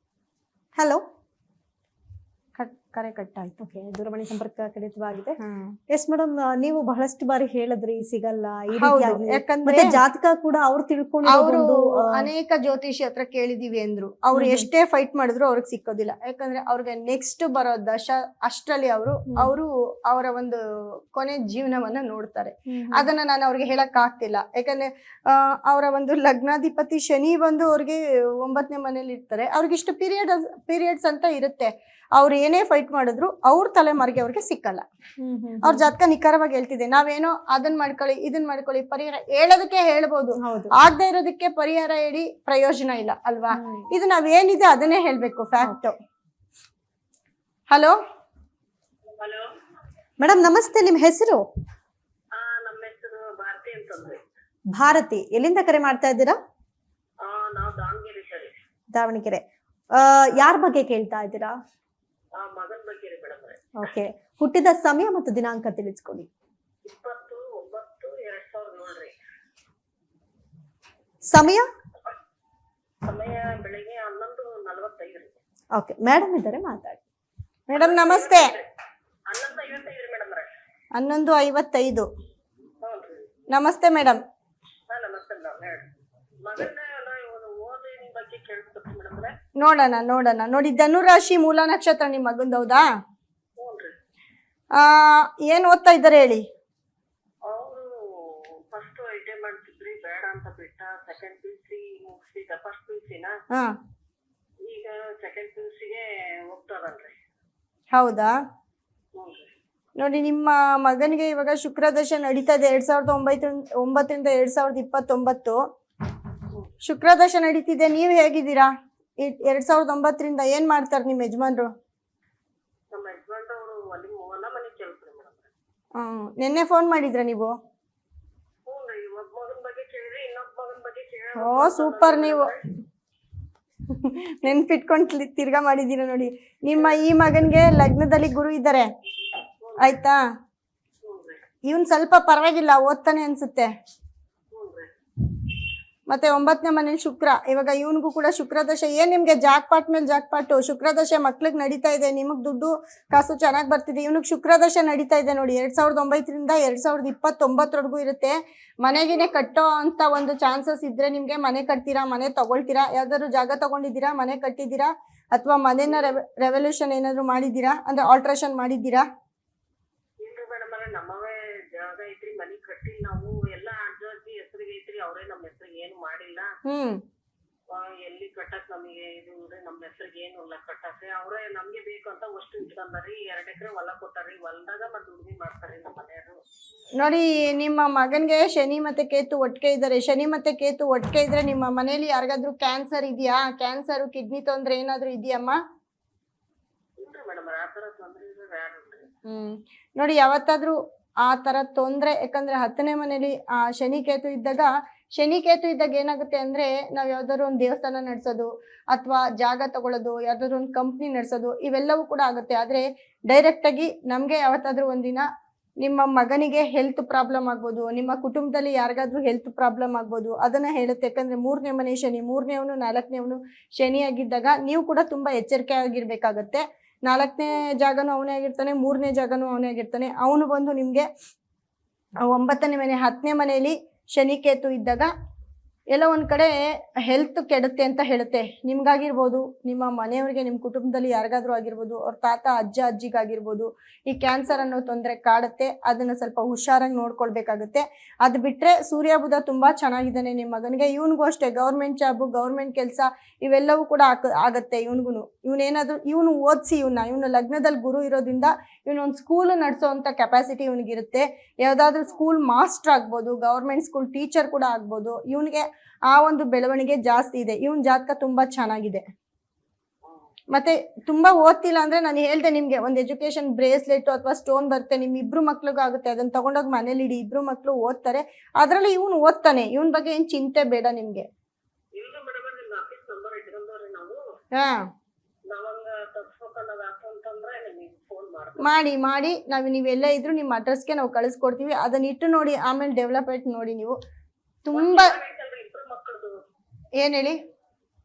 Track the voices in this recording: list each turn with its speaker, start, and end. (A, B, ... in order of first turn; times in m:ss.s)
0:00.8-0:01.0 A
0:02.6-0:03.6 B
0:03.6-0:05.4 A
0:05.4-0:05.7 B
0:05.9-0:12.3 A
0:08.8-0:10.0 B
0:11.3-0:20.6 B
0:14.3-0:14.7 A
0:21.1-0:34.8 B
0:22.7-0:23.1 A
0:35.2-0:35.9 A
0:35.6-0:46.0 B
0:40.4-0:40.7 A
0:43.5-0:43.9 A
0:47.7-0:48.0 B
0:49.2-0:49.5 C
0:50.2-0:51.4 A
0:52.4-0:54.2 C
0:54.7-0:56.4 A
0:57.2-0:58.5 C
0:58.9-1:01.6 A
1:02.4-1:03.6 C
1:03.8-1:06.3 A
1:06.9-1:09.1 C
1:11.3-1:11.7 A
1:13.0-1:15.4 C
1:15.7-1:17.0 A
1:17.7-1:18.5 B
1:17.8-1:18.7 C
1:19.3-1:20.5 C
1:20.9-1:22.1 B
1:22.8-1:23.2 C
1:23.5-1:24.2 B
1:24.9-1:25.9 C
1:26.4-1:29.3 C
1:29.6-1:32.8 B
1:33.6-1:33.9 C
1:34.7-1:36.4 B
1:37.5-1:43.3 C
1:44.6-1:47.1 C
1:47.9-1:48.4 B
1:49.2-1:49.5 C
1:50.0-1:55.6 B
1:56.8-2:01.7 B
2:02.9-2:05.5 C
2:06.0-2:07.5 B
2:08.7-2:12.6 C
2:11.4-2:12.5 B
2:14.0-2:18.9 B
2:19.6-2:20.0 C
2:19.8-2:20.2 B
2:21.0-2:21.4 C
2:21.7-2:23.7 B
2:24.5-2:24.9 C
2:26.1-2:49.0 B
2:50.2-2:56.5 C
2:56.7-2:57.0 B
2:57.7-3:06.4 C
3:07.0-3:15.6 B
3:17.0-3:19.1 C
3:19.3-3:35.2 B
3:35.8-3:51.1 B
3:52.2-3:55.1 B
3:55.9-4:29.0 B
4:30.5-4:41.3 B
4:42.0-4:44.2 C
4:45.5-4:48.7 C
4:48.6-4:54.0 B
4:54.7-4:55.1 B
4:54.7-4:56.3 C
4:57.0-4:57.4 B